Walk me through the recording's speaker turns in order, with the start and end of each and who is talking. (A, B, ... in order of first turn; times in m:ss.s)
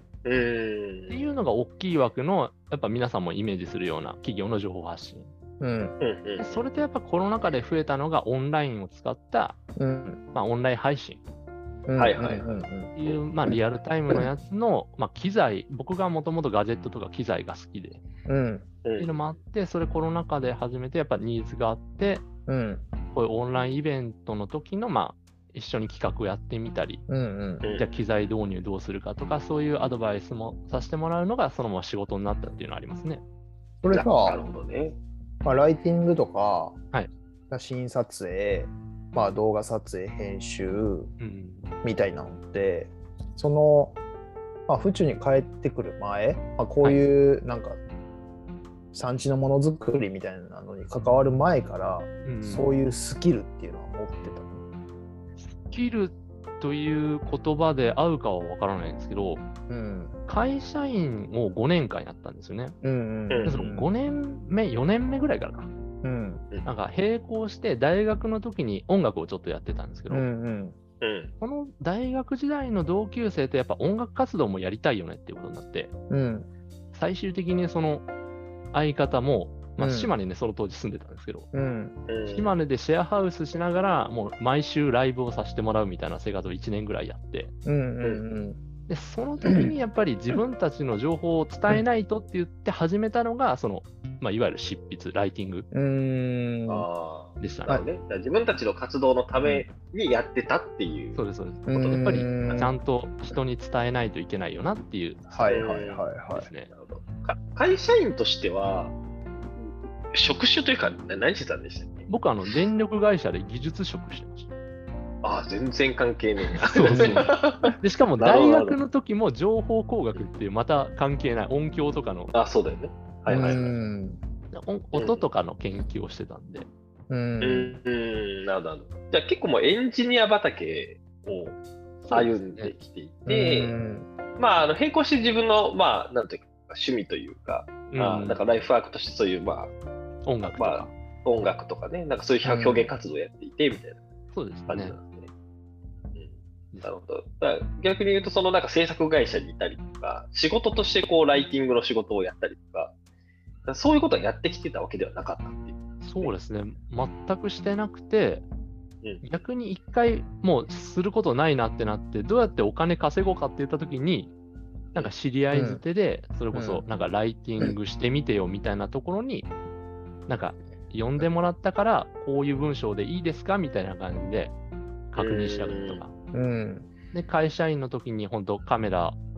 0:00.2-0:01.3 A
0:01.1-0:05.3 B
0:05.6-0:06.0 C
0:06.0-0:06.6 A
0:06.4-0:09.6 B
0:09.8-0:10.2 C
0:10.3-0:11.2 B
0:11.9-0:12.9 C
0:12.0-0:13.2 A
0:13.0-0:18.0 B
0:18.2-0:18.7 C
0:18.8-0:19.2 A
0:19.0-0:22.2 B
0:22.5-0:22.8 C
0:23.1-0:27.0 B
0:27.1-0:27.6 C
0:27.6-0:28.0 A
0:27.8-0:33.2 B
0:33.8-0:34.4 C
0:33.9-0:35.0 A
0:35.4-0:36.8 C
0:37.5-0:41.1 C
0:41.2-0:41.7 B
0:41.8-0:44.0 C
0:44.7-0:47.8 C
0:48.9-0:54.6 C
0:52.2-0:52.7 B
0:55.4-0:59.4 B
0:59.7-1:00.1 C
1:00.3-1:02.8 B
1:02.8-1:03.9 C
1:03.3-1:03.6 A
1:03.4-1:05.7 B
1:06.0-1:06.4 C
1:06.6-1:10.2 B
1:10.1-1:10.8 C
1:11.0-1:11.3 A
1:11.4-1:15.9 B
1:16.1-1:16.5 C
1:16.9-1:18.0 B
1:18.7-1:21.5 B
1:19.8-1:20.1 C
1:21.5-1:22.0 C
1:22.1-1:22.5 A
1:22.3-1:27.5 B
1:27.6-1:28.6 C
1:28.9-1:35.7 B
1:35.7-1:36.9 C
1:36.7-1:41.2 A
1:37.4-1:37.8 B
1:41.2-1:45.5 B
1:41.7-1:42.7 C
1:41.9-1:42.3 A
1:45.3-1:46.5 C
1:45.5-1:46.0 A
1:46.3-1:46.7 B
1:46.7-1:49.0 A
1:49.6-1:52.1 A
1:52.1-1:54.5 B
1:55.2-1:58.8 A
1:56.6-2:02.3 B
2:02.3-2:03.7 A
2:03.3-2:04.2 C
2:03.3-2:03.7 B
2:04.5-2:06.7 B
2:04.9-2:05.2 A
2:07.1-2:07.8 C
2:07.4-2:11.6 A
2:12.0-2:12.7 B
2:12.1-2:13.7 A
2:13.3-2:14.1 C
2:14.4-2:19.7 A
2:17.9-2:18.4 B
2:20.2-2:20.9 B
2:20.6-2:24.0 A
2:22.4-2:22.9 C
2:24.3-2:25.0 B
2:24.7-2:25.3 A
2:26.1-2:32.9 A
2:33.6-2:36.3 A
2:36.0-2:38.4 B
2:39.2-2:44.3 B
2:44.9-2:49.5 B
2:45.5-2:45.8 C
2:46.5-2:46.8 C
2:50.3-2:54.5 B
2:55.1-2:56.1 B
2:55.2-2:56.0 A
2:56.3-2:56.9 C
2:57.1-2:59.2 B